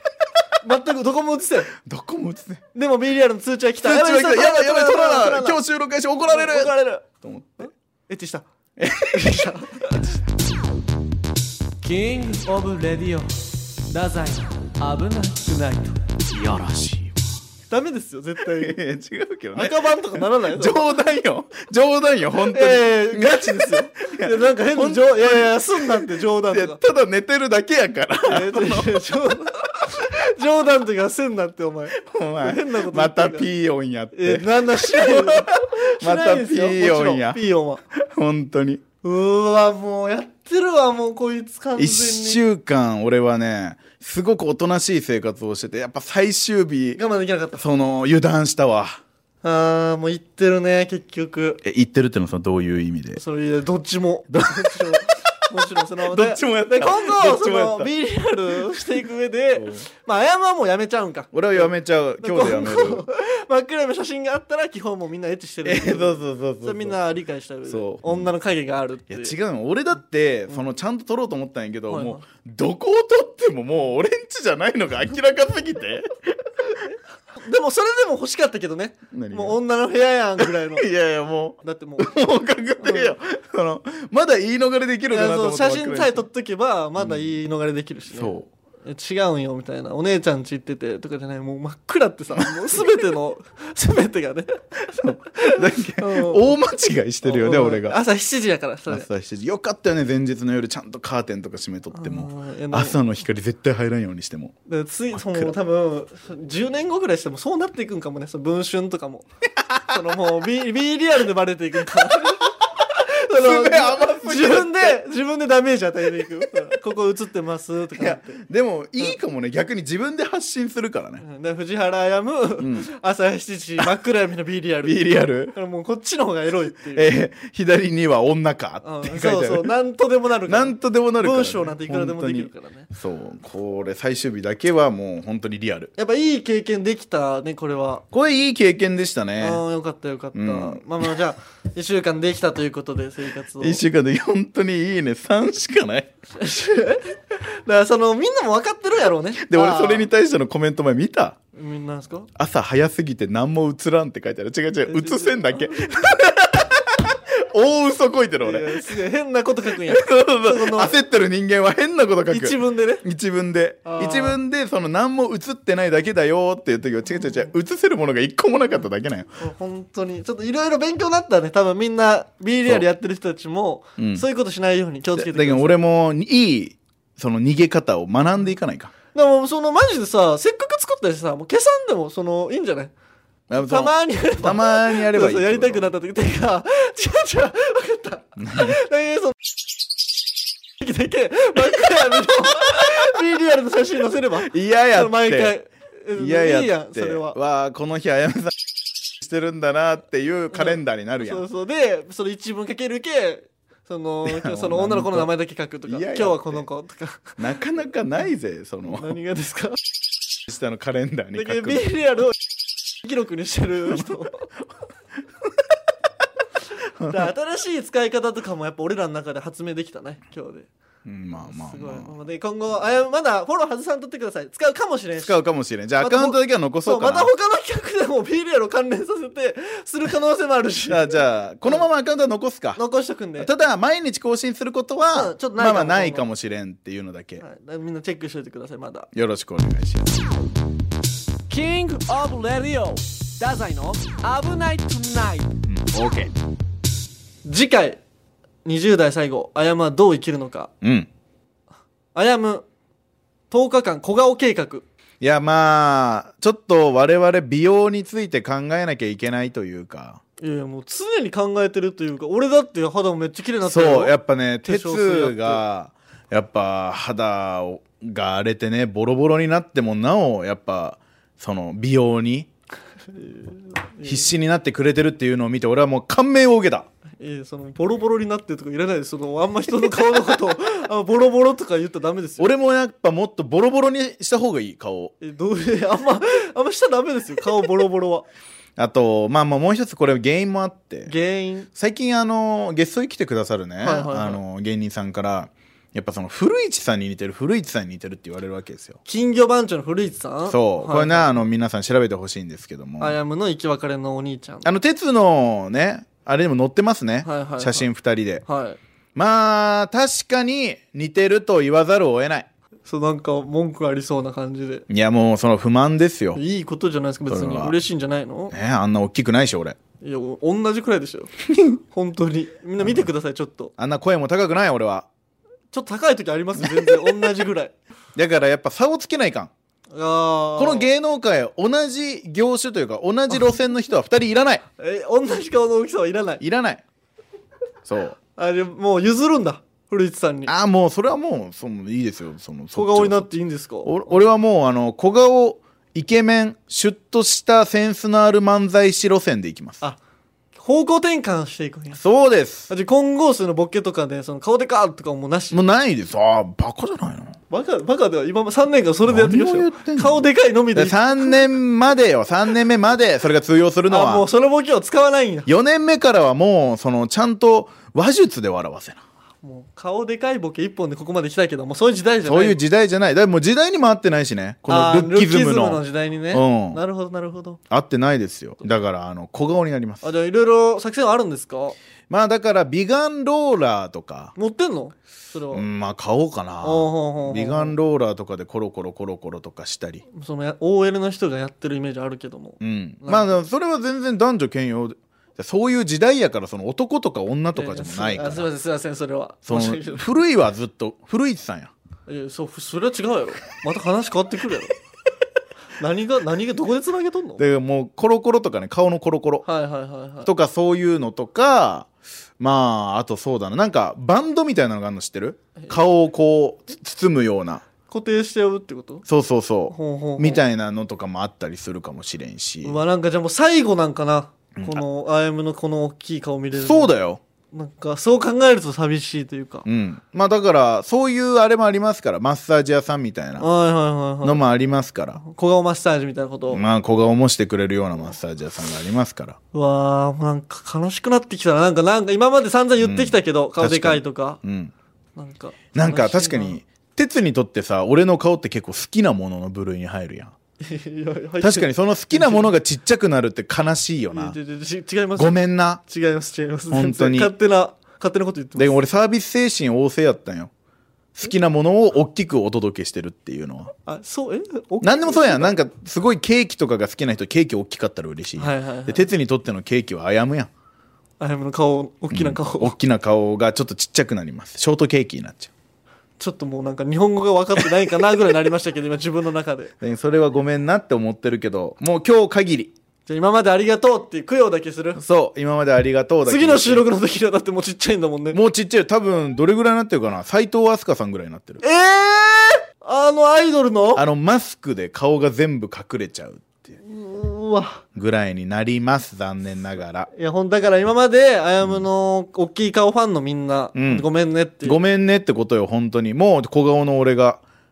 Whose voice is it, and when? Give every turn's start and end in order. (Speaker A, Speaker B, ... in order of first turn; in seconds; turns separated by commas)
Speaker A: 0.6-1.7, Speaker B: 1.8-2.6, Speaker A: 2.7-5.6, Speaker B: 3.8-7.7, Speaker A: 6.3-7.0, Speaker A: 7.6-8.4, Speaker B: 8.8-10.2, Speaker A: 9.1-10.2, Speaker C: 11.8-16.0, Speaker B: 16.3-17.2, Speaker A: 17.7-18.8, Speaker B: 18.5-29.0, Speaker A: 19.5-20.9, Speaker A: 22.5-26.8, Speaker A: 28.2-33.5, Speaker B: 32.0-37.4, Speaker A: 34.1-37.8, Speaker B: 37.9-38.8, Speaker A: 39.0-42.4, Speaker B: 41.8-47.0, Speaker A: 47.0-47.6, Speaker B: 47.5-49.0, Speaker A: 49.4-51.6, Speaker B: 51.6-53.2, Speaker A: 53.1-69.3, Speaker B: 54.3-55.0, Speaker B: 56.0-57.9, Speaker B: 58.5-59.0, Speaker B: 59.5-59.9, Speaker B: 61.3-63.0, Speaker B: 65.6-67.0, Speaker B: 67.7-68.3, Speaker B: 69.1-76.7, Speaker A: 71.9-72.2, Speaker A: 77.4-80.9, Speaker B: 79.1-79.6, Speaker B: 80.4-86.2, Speaker A: 81.6-82.1, Speaker A: 82.8-83.1, Speaker A: 85.1-94.6, Speaker B: 87.0-87.3, Speaker B: 88.1-88.5, Speaker B: 92.4-92.8, Speaker B: 94.9-98.0, Speaker A: 95.3-96.5, Speaker A: 97.2-99.1, Speaker B: 98.9-104.5, Speaker A: 101.9-103.0, Speaker A: 104.7-109.3, Speaker B: 105.1-105.5, Speaker B: 109.7-110.0, Speaker A: 109.8-118.4, Speaker B: 112.0-112.3, Speaker B: 113.3-115.0, Speaker B: 118.0-121.2, Speaker A: 121.2-127.1, Speaker B: 122.6-122.9, Speaker B: 124.8-125.5, Speaker B: 126.9-129.7, Speaker A: 128.8-132.9, Speaker B: 130.4-135.9, Speaker A: 136.0-138.0, Speaker B: 138.1-139.6, Speaker A: 139.4-143.8, Speaker B: 140.3-141.2, Speaker B: 143.6-146.1, Speaker A: 146.3-150.1, Speaker B: 149.4-151.4, Speaker A: 151.5-152.3, Speaker B: 152.3-159.0, Speaker A: 154.9-155.9, Speaker A: 158.4-160.9, Speaker B: 159.8-169.3, Speaker A: 162.3-163.0, Speaker A: 163.8-164.4, Speaker A: 169.4-175.8, Speaker B: 174.0-174.2, Speaker B: 175.1-178.9, Speaker A: 179.1-182.9, Speaker B: 183.5-185.9, Speaker A: 183.6-189.3, Speaker B: 188.4-188.8, Speaker A: 190.8-197.4, Speaker B: 194.4-195.5, Speaker B: 196.1-198.6, Speaker B: 199.1-201.4, Speaker A: 200.5-207.4, Speaker B: 204.2-205.3, Speaker B: 205.8-206.6, Speaker B: 207.4-209.2, Speaker A: 208.9-209.8, Speaker B: 210.4-211.9, Speaker A: 211.3-212.3, Speaker A: 212.9-214.5, Speaker B: 217.0-217.3, Speaker A: 217.0-220.7, Speaker B: 221.0-222.1, Speaker A: 221.4-225.3, Speaker B: 225.2-227.3, Speaker A: 226.0-231.9, Speaker B: 230.9-232.8, Speaker A: 232.8-233.5, Speaker B: 233.4-237.4, Speaker A: 235.1-236.2, Speaker A: 237.4-239.1, Speaker B: 239.1-240.1, Speaker C: 241.5-245.5, Speaker B: 245.7-246.3, Speaker A: 247.4-248.0, Speaker A: 248.6-250.7, Speaker B: 250.8-251.1, Speaker A: 252.1-252.6, Speaker A: 253.5-254.8, Speaker B: 255.2-260.2, Speaker A: 260.4-265.6, Speaker B: 263.6-272.5, Speaker A: 273.1-274.3, Speaker B: 274.0-276.9, Speaker A: 277.2-282.5, Speaker B: 282.4-285.1, Speaker A: 285.2-288.3, Speaker B: 288.8-291.1, Speaker A: 291.1-291.7, Speaker B: 291.7-299.0, Speaker A: 293.8-294.4, Speaker A: 299.1-301.4, Speaker B: 300.5-303.2, Speaker A: 303.0-304.7, Speaker B: 304.6-308.4, Speaker A: 307.2-307.9, Speaker A: 308.4-308.8, Speaker B: 309.1-312.5, Speaker A: 312.9-314.8, Speaker B: 314.9-316.4, Speaker A: 316.4-318.5, Speaker B: 317.3-317.8, Speaker B: 318.5-319.8, Speaker A: 320.0-323.7, Speaker B: 323.8-325.1, Speaker A: 325.7-327.7, Speaker B: 326.6-327.3, Speaker B: 328.1-329.5, Speaker A: 329.9-330.9, Speaker B: 330.6-334.6, Speaker A: 334.8-336.4, Speaker B: 336.4-336.8, Speaker B: 337.9-338.2, Speaker A: 338.4-340.5, Speaker B: 340.5-343.3, Speaker A: 342.7-344.2, Speaker B: 343.8-349.8, Speaker A: 350.6-352.0, Speaker B: 351.9-352.7, Speaker A: 352.7-355.6, Speaker B: 355.5-357.4, Speaker A: 357.5-361.5, Speaker B: 359.1-364.2, Speaker A: 363.9-365.5, Speaker B: 365.5-369.0, Speaker A: 369.4-372.6, Speaker B: 372.2-375.8, Speaker A: 374.7-377.6, Speaker B: 376.3-376.8, Speaker B: 377.7-380.0, Speaker A: 380.0-381.8, Speaker B: 382.1-384.3, Speaker A: 384.4-385.6, Speaker B: 385.5-390.0, Speaker A: 386.6-387.7, Speaker A: 390.1-393.4, Speaker B: 392.6-398.5, Speaker A: 397.5-400.1, Speaker B: 399.5-401.7, Speaker A: 402.1-404.7, Speaker A: 405.8-407.4, Speaker B: 407.4-409.4, Speaker A: 409.4-410.3, Speaker B: 410.2-417.6, Speaker A: 417.9-419.1, Speaker B: 419.1-422.8, Speaker A: 419.7-420.4, Speaker A: 422.6-426.9, Speaker B: 424.6-424.8, Speaker B: 426.5-427.2, Speaker A: 427.5-429.6, Speaker B: 429.6-433.5, Speaker A: 433.4-434.4, Speaker B: 434.2-435.2, Speaker A: 435.2-436.6, Speaker B: 436.5-439.4, Speaker A: 439.5-444.4, Speaker B: 442.8-444.7, Speaker A: 445.1-446.6, Speaker B: 445.7-450.3, Speaker A: 450.6-452.5, Speaker B: 451.4-454.4, Speaker A: 454.1-458.8, Speaker B: 455.1-455.8, Speaker B: 456.7-457.3, Speaker B: 458.6-460.5, Speaker B: 461.1-463.7, Speaker A: 463.9-465.6, Speaker B: 464.8-470.5, Speaker A: 468.4-469.1, Speaker A: 471.2-472.7, Speaker B: 472.1-475.5, Speaker A: 476.2-479.7, Speaker B: 479.8-482.7, Speaker A: 483.1-485.0, Speaker B: 485.0-486.9, Speaker A: 486.2-488.4, Speaker B: 488.3-491.6, Speaker A: 491.6-494.0, Speaker B: 493.9-496.7, Speaker A: 496.8-497.8, Speaker B: 497.9-500.1, Speaker A: 500.1-504.8, Speaker B: 503.7-504.1, Speaker B: 504.6-507.4